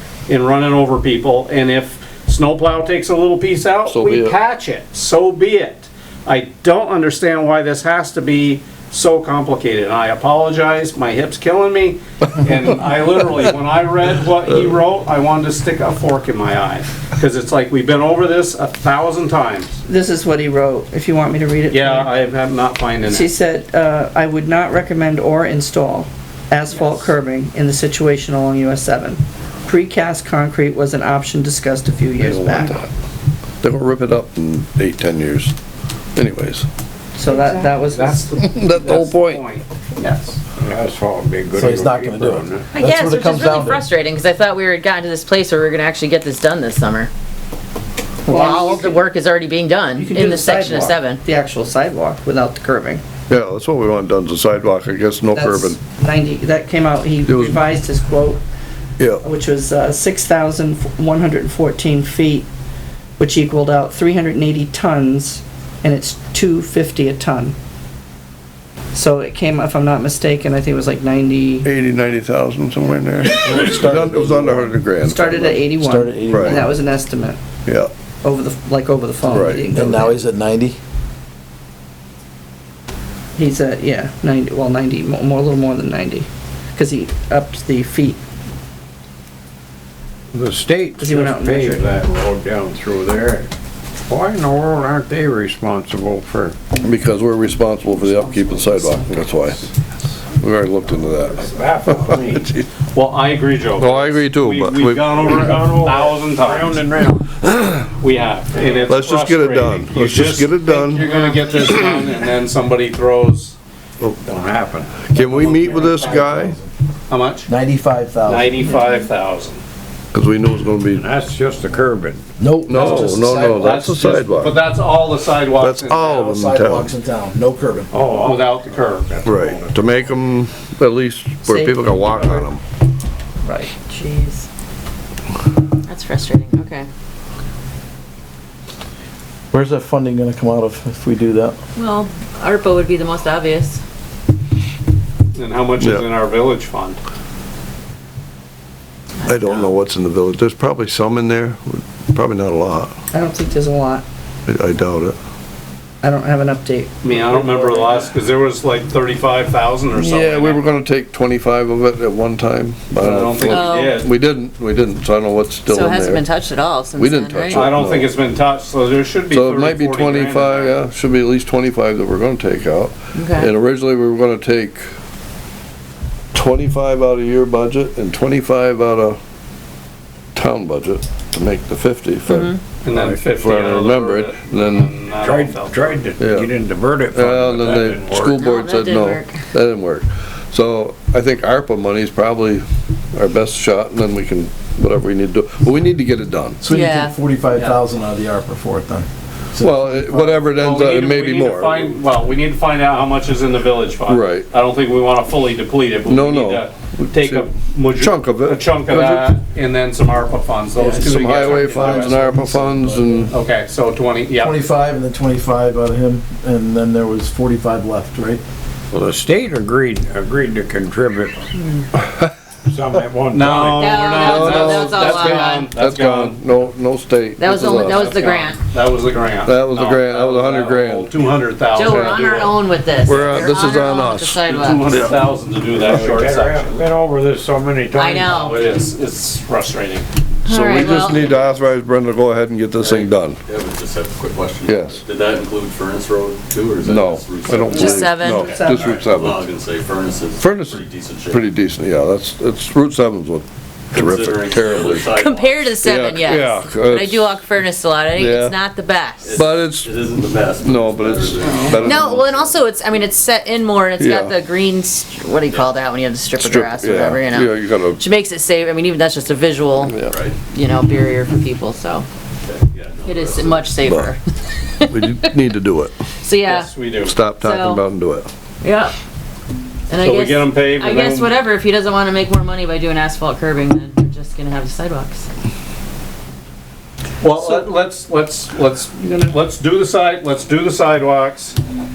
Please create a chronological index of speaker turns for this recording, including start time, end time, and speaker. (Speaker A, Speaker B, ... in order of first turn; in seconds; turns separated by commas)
Speaker A: 0.3-19.8, Speaker B: 3.9-4.3, Speaker C: 19.9-22.1, Speaker A: 21.7-23.3, Speaker C: 23.0-32.9, Speaker B: 32.2-32.9, Speaker B: 33.6-35.5, Speaker B: 36.1-36.7, Speaker C: 37.1-38.3, Speaker A: 37.2-40.4, Speaker B: 38.4-39.4, Speaker D: 40.6-42.7, Speaker E: 41.5-43.8, Speaker F: 42.7-47.1, Speaker F: 48.2-51.1, Speaker C: 48.3-49.0, Speaker C: 49.9-53.0, Speaker B: 50.1-50.6, Speaker B: 53.3-55.8, Speaker C: 55.3-58.4, Speaker B: 57.2-57.6, Speaker B: 59.0-59.2, Speaker C: 59.2-62.5, Speaker C: 63.2-67.5, Speaker C: 68.9-71.7, Speaker B: 71.6-75.6, Speaker E: 73.4-74.7, Speaker C: 75.0-77.4, Speaker E: 75.3-76.7, Speaker B: 76.3-76.6, Speaker B: 77.6-77.9, Speaker C: 78.2-80.2, Speaker B: 79.2-79.7, Speaker E: 79.7-80.8, Speaker C: 83.3-88.2, Speaker D: 90.3-93.5, Speaker C: 91.0-92.0, Speaker D: 94.1-96.6, Speaker B: 96.8-99.6, Speaker D: 98.5-99.2, Speaker B: 100.3-102.7, Speaker D: 101.3-102.5, Speaker A: 102.9-106.8, Speaker B: 103.8-105.6, Speaker D: 105.1-107.3, Speaker B: 107.4-107.8, Speaker A: 108.0-113.6, Speaker B: 108.9-111.1, Speaker D: 114.2-115.5, Speaker B: 115.1-116.6, Speaker E: 115.1-116.7, Speaker A: 117.1-117.5, Speaker E: 117.5-118.7, Speaker A: 118.2-119.6, Speaker B: 120.1-121.1, Speaker D: 120.9-122.2, Speaker E: 122.4-123.8, Speaker B: 122.7-124.6, Speaker A: 122.7-126.5, Speaker B: 125.6-126.9, Speaker E: 126.2-127.9, Speaker D: 127.9-130.1, Speaker A: 128.2-129.2, Speaker B: 129.2-132.6, Speaker C: 131.5-132.5, Speaker C: 133.4-133.7, Speaker F: 133.9-134.4, Speaker F: 135.9-136.9, Speaker E: 139.5-141.6, Speaker F: 141.8-143.8, Speaker B: 142.0-142.3, Speaker A: 145.3-147.0, Speaker B: 145.8-146.1, Speaker F: 149.2-149.7, Speaker B: 149.2-152.9, Speaker C: 153.1-154.0, Speaker B: 154.5-155.2, Speaker C: 156.0-157.9, Speaker A: 157.0-160.6, Speaker B: 159.9-168.1, Speaker A: 162.9-164.1, Speaker F: 163.4-163.9, Speaker F: 165.7-167.7, Speaker A: 167.5-170.8, Speaker B: 169.3-174.8, Speaker F: 173.2-173.5, Speaker B: 176.3-179.2, Speaker B: 180.3-182.6, Speaker F: 182.3-182.6, Speaker A: 182.8-186.0, Speaker D: 182.9-183.2, Speaker B: 183.2-184.9, Speaker D: 185.1-188.5, Speaker B: 186.2-186.5, Speaker B: 187.1-196.8, Speaker F: 188.5-189.3, Speaker E: 196.6-200.4, Speaker F: 196.8-197.1, Speaker B: 199.6-201.9, Speaker A: 200.5-212.4, Speaker B: 204.1-204.5, Speaker B: 206.1-209.3, Speaker E: 210.8-213.3, Speaker B: 210.9-213.3, Speaker A: 213.3-214.7, Speaker E: 214.4-218.4, Speaker D: 218.9-221.5, Speaker D: 222.7-224.3, Speaker A: 223.3-226.5, Speaker B: 223.8-228.2, Speaker F: 223.8-225.7, Speaker F: 227.4-228.6, Speaker A: 227.6-232.6, Speaker B: 229.4-231.1, Speaker F: 231.8-234.9, Speaker B: 231.8-232.3, Speaker B: 233.0-235.2, Speaker A: 234.4-236.8, Speaker D: 235.8-238.4, Speaker F: 237.9-238.6, Speaker A: 238.2-240.1, Speaker B: 240.4-243.4, Speaker F: 240.5-241.3, Speaker G: 242.8-251.5, Speaker B: 244.6-245.0, Speaker B: 246.8-249.4, Speaker F: 247.7-248.3, Speaker C: 248.1-249.0, Speaker B: 250.4-255.2, Speaker G: 253.9-256.6, Speaker F: 255.2-259.3, Speaker B: 255.8-257.5, Speaker B: 258.1-258.6, Speaker G: 259.2-262.6, Speaker B: 259.3-259.9, Speaker B: 260.6-262.4, Speaker F: 261.9-269.9, Speaker B: 263.9-264.5, Speaker G: 265.5-265.8, Speaker B: 266.3-268.1, Speaker B: 269.8-270.4, Speaker G: 270.0-270.4, Speaker F: 270.5-272.1, Speaker G: 272.4-273.8, Speaker F: 273.1-274.2, Speaker B: 273.3-274.2, Speaker B: 274.8-275.9, Speaker F: 276.2-276.7, Speaker A: 276.4-277.2, Speaker B: 276.9-278.3, Speaker F: 277.5-277.8, Speaker F: 278.6-278.9, Speaker F: 279.9-285.2, Speaker A: 279.9-281.4, Speaker A: 287.2-291.6